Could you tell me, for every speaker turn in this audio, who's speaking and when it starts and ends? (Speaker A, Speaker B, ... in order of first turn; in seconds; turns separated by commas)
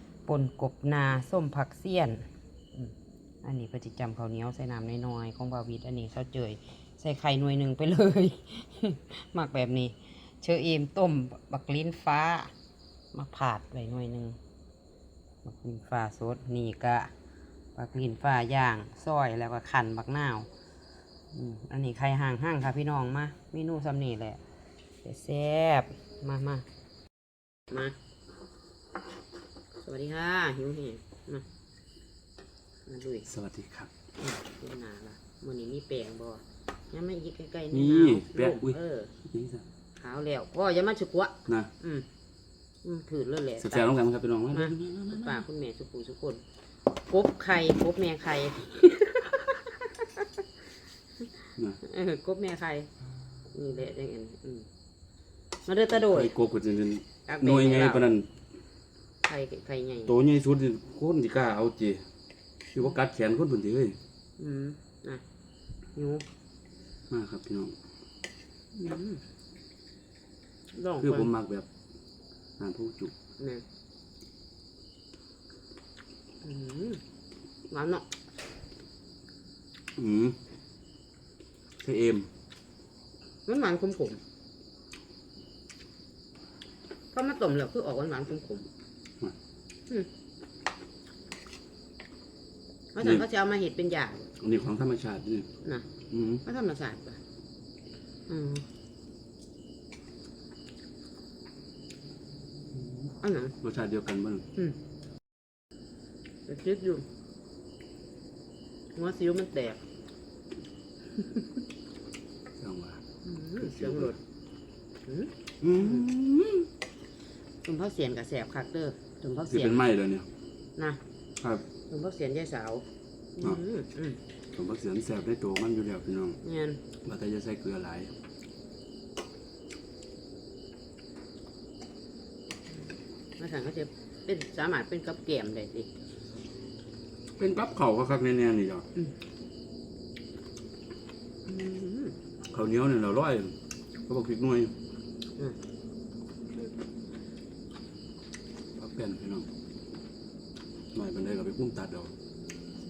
Speaker A: 0.3-12.5, Speaker A: 13.1-14.4, Speaker A: 15.4-17.1, Speaker A: 17.7-20.5, Speaker A: 21.3-24.4, Speaker A: 25.0-26.6, Speaker A: 27.7-27.9, Speaker A: 29.8-31.4, Speaker A: 32.9-33.3, Speaker B: 33.2-33.9, Speaker A: 34.2-39.1, Speaker B: 37.7-39.6, Speaker A: 40.0-42.0, Speaker A: 42.8-43.9, Speaker B: 43.6-45.4, Speaker A: 44.5-46.4, Speaker A: 47.1-50.3, Speaker A: 51.8-52.9, Speaker A: 53.5-54.7, Speaker A: 55.6-56.3, Speaker B: 55.9-58.3, Speaker A: 57.3-58.1, Speaker A: 59.2-60.1, Speaker B: 60.1-62.0, Speaker B: 62.7-64.0, Speaker A: 64.4-65.2, Speaker A: 65.9-66.2, Speaker B: 67.1-67.7, Speaker A: 68.7-69.2, Speaker A: 70.7-71.3, Speaker B: 71.0-71.7, Speaker B: 72.6-73.1, Speaker A: 73.4-73.6, Speaker A: 76.4-77.0, Speaker A: 77.7-78.0, Speaker B: 80.0-80.4, Speaker B: 81.8-82.3, Speaker A: 83.5-84.2, Speaker A: 87.1-88.7, Speaker A: 92.9-94.3, Speaker B: 94.4-95.5, Speaker B: 96.1-96.4, Speaker A: 96.4-97.2, Speaker A: 98.3-98.7, Speaker A: 103.2-103.5, Speaker B: 103.6-104.5, Speaker A: 106.5-107.0, Speaker A: 108.9-109.8, Speaker B: 112.6-113.0, Speaker A: 113.2-114.2, Speaker B: 113.6-114.1, Speaker A: 115.0-116.0, Speaker B: 115.6-116.7, Speaker A: 117.6-119.9, Speaker B: 119.5-120.3, Speaker A: 121.9-122.8, Speaker A: 123.4-124.2, Speaker B: 124.5-126.4, Speaker A: 126.4-126.8, Speaker B: 127.0-128.1, Speaker A: 133.4-135.9, Speaker B: 137.4-138.9, Speaker A: 141.4-142.2, Speaker B: 142.5-143.6, Speaker B: 144.1-144.7, Speaker B: 148.8-149.5, Speaker B: 150.9-152.1